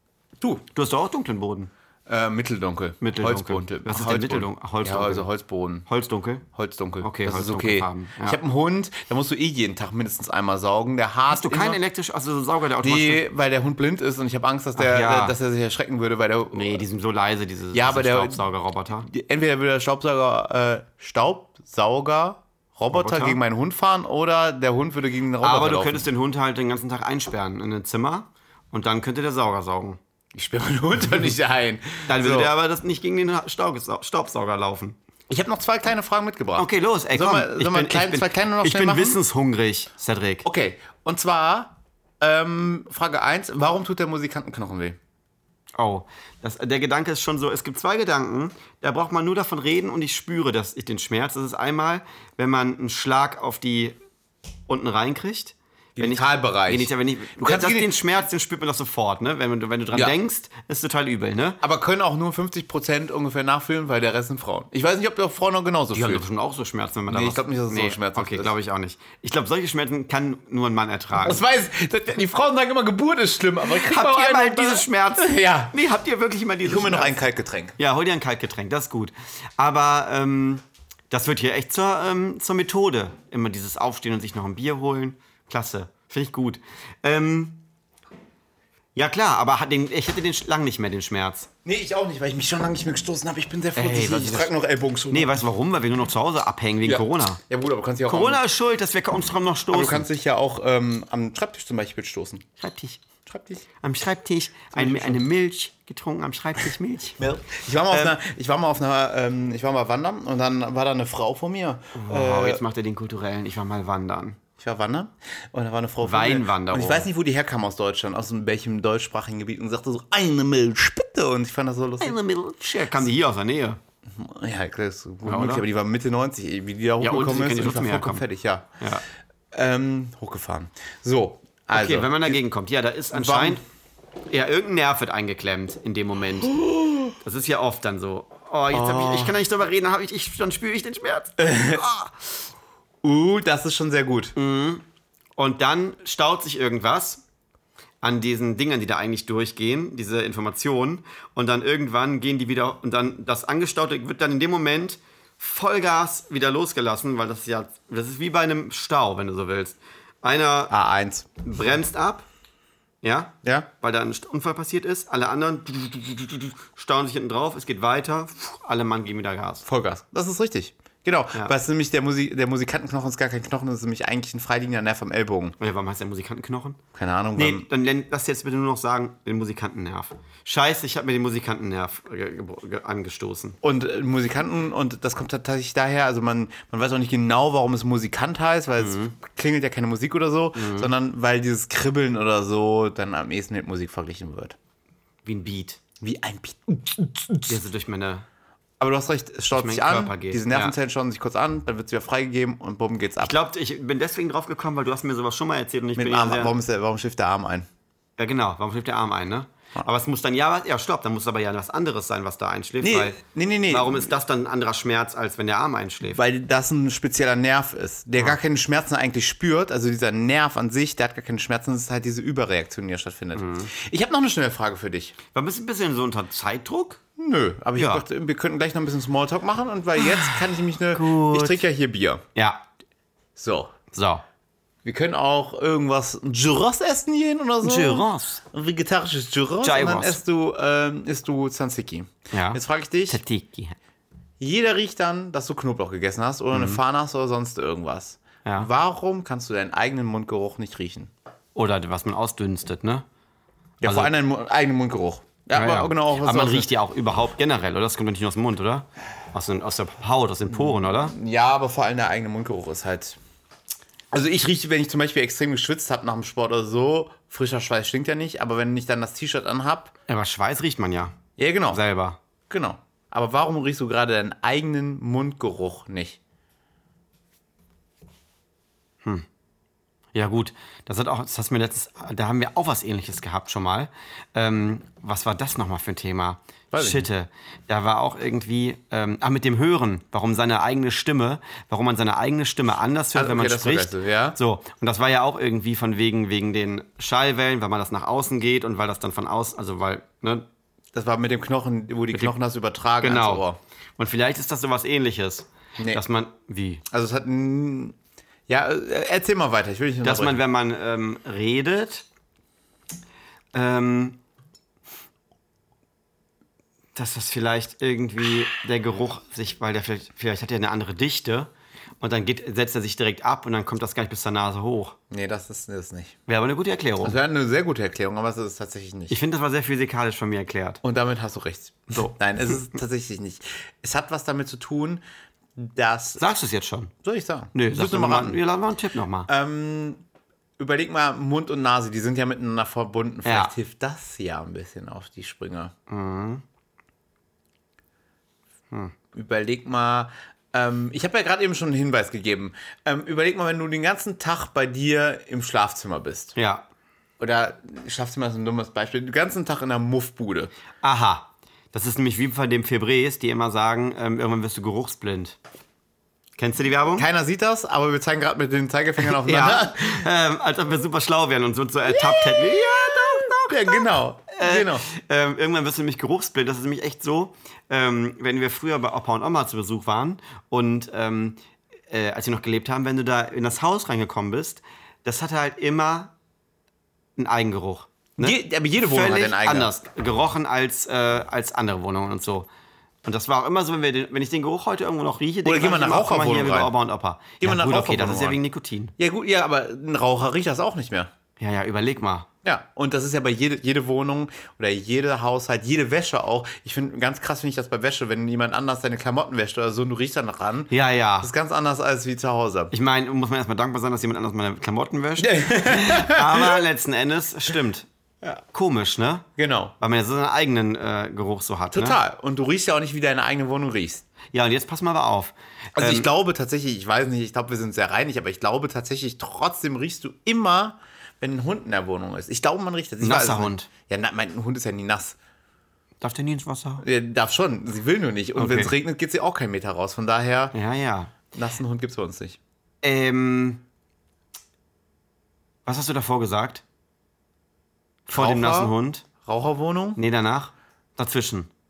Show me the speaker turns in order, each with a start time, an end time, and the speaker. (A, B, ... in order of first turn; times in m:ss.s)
0:00.4-0:00.6 A
0:00.7-0:01.7 B
0:02.1-0:05.9 A
0:03.0-0:05.3 B
0:05.8-0:06.4 B
0:06.5-0:11.8 A
0:07.0-0:08.4 B
0:11.3-0:13.2 B
0:12.8-0:16.8 A
0:14.8-0:15.4 B
0:16.5-0:19.1 B
0:17.7-0:18.4 A
0:19.1-0:26.1 A
0:22.9-0:23.4 B
0:25.4-0:30.0 B
0:30.3-0:32.5 A
0:32.1-0:35.0 B
0:35.3-0:39.2 A
0:36.6-0:40.4 B
0:40.4-0:45.0 A
0:45.8-0:53.9 B
0:54.7-1:01.6 B
0:56.0-0:57.9 A
1:01.6-1:06.2 A
1:05.9-1:11.4 B
1:07.1-1:08.5 A
1:11.2-1:15.8 A
1:13.7-1:17.2 B
1:16.6-1:17.8 A
1:17.8-1:27.6 B
1:29.0-1:31.5 B
1:31.6-1:35.4 A
1:33.8-1:34.5 B
1:35.1-1:37.4 B
1:36.8-1:38.4 A
1:38.0-1:40.1 B
1:39.7-1:42.5 A
1:42.6-1:43.0 B
1:43.2-1:43.6 A
1:43.8-1:48.1 B
1:44.7-1:45.2 A
1:47.2-1:52.6 A
1:51.9-1:54.4 B
1:54.6-2:02.2 A
1:56.0-1:57.1 B
2:02.0-2:03.8 B
2:04.1-2:08.7 A
2:05.2-2:05.6 B
2:07.0-2:08.2 B
2:09.5-2:12.4 A
2:11.7-2:13.6 B
2:13.1-2:13.6 A
2:14.3-2:16.6 B
2:16.5-2:17.1 A
2:17.2-2:22.1 B
2:18.7-2:19.4 A
2:21.4-2:21.9 A
2:23.0-2:24.3 A
2:24.4-2:24.8 B
2:25.4-2:27.2 B
2:28.0-2:40.7 B
2:40.7-2:41.3 A
2:41.4-2:42.3 B
2:43.0-2:49.6 B
2:43.4-2:43.7 A
2:49.6-2:55.6 A
2:55.6-2:56.8 B
2:56.9-2:57.7 A
2:57.4-3:03.6 B
3:03.6-3:14.6 A
3:08.8-3:09.1 B
3:10.6-3:10.9 B
3:15.2-3:15.8 B
3:16.0-3:17.6 A
3:17.5-3:18.2 B
3:18.8-3:23.4 A
3:19.5-3:20.7 B
3:23.2-3:26.5 B
3:26.0-3:27.7 A
3:28.2-3:33.2 B
3:32.8-3:34.1 A
3:33.7-3:36.2 B
3:36.1-3:45.2 A
3:43.3-3:43.7 B
3:45.3-3:47.0 B
3:47.2-3:52.2 A
3:47.8-3:48.0 B
3:50.0-3:50.4 B
3:50.9-3:51.6 B
3:52.3-3:52.6 B
3:53.4-3:53.7 A
3:53.9-3:54.2 B
3:54.8-4:03.2 A
3:57.6-3:58.4 B
3:59.6-4:00.2 B
4:02.3-4:03.8 B
4:04.4-4:11.1 A
4:06.5-4:06.8 B
4:11.5-4:13.0 B
4:13.8-4:16.7 A
4:13.8-4:14.1 B
4:15.5-4:21.1 B
4:20.5-4:23.2 A
4:24.1-4:29.9 A
4:30.1-4:31.2 B
4:31.4-4:31.8 A
4:31.7-4:32.2 B
4:32.5-4:36.2 A
4:40.1-5:00.5 B
4:46.7-4:47.1 A
4:53.1-4:54.4 A
5:00.9-5:03.6 A
5:03.0-5:03.4 B
5:04.0-5:06.8 B
5:06.9-5:08.0 A
5:08.5-5:10.4 A
5:10.0-5:12.0 B
5:13.5-5:14.2 B
5:16.9-5:25.0 B
5:25.1-5:26.2 A
5:26.3-5:27.2 B
5:27.0-5:29.2 A
5:29.1-5:30.8 B
5:30.8-5:35.0 A
5:35.6-5:36.2 A
5:36.2-5:36.9 B
5:37.0-5:38.4 A
5:37.5-5:39.3 B
5:39.3-5:40.0 A
5:40.6-5:45.7 A
5:43.2-5:43.5 B
5:45.9-5:46.4 B
5:49.1-5:56.3 A
5:56.3-5:56.6 B
5:57.2-6:00.5 A
6:00.8-6:05.4 B
6:06.4-6:07.0 B
6:06.9-6:10.1 A
6:09.0-6:21.4 B
6:11.9-6:14.8 A
6:21.9-6:26.1 B
6:27.2-6:32.5 B
6:28.2-6:29.7 A
6:33.0-6:38.9 B
6:35.4-6:36.7 A
6:37.4-6:38.4 A
6:39.0-6:41.1 A
6:41.4-6:42.3 B
6:42.4-6:52.7 A
6:50.7-6:51.3 B
6:52.7-6:57.9 B
6:55.2-6:56.6 A
6:58.5-6:59.3 B
6:59.4-6:59.7 A
6:59.8-7:02.0 B
7:01.7-7:04.0 A
7:04.3-7:06.1 B
7:05.8-7:15.2 A
7:13.0-7:13.7 B
7:16.0-7:16.8 B
7:16.8-7:20.5 A
7:18.4-7:18.7 B
7:20.5-7:21.1 B
7:21.3-7:22.4 A
7:22.8-7:23.6 B
7:25.6-7:26.6 B
7:28.1-7:29.0 B
7:28.1-7:30.0 A
7:30.0-7:31.5 B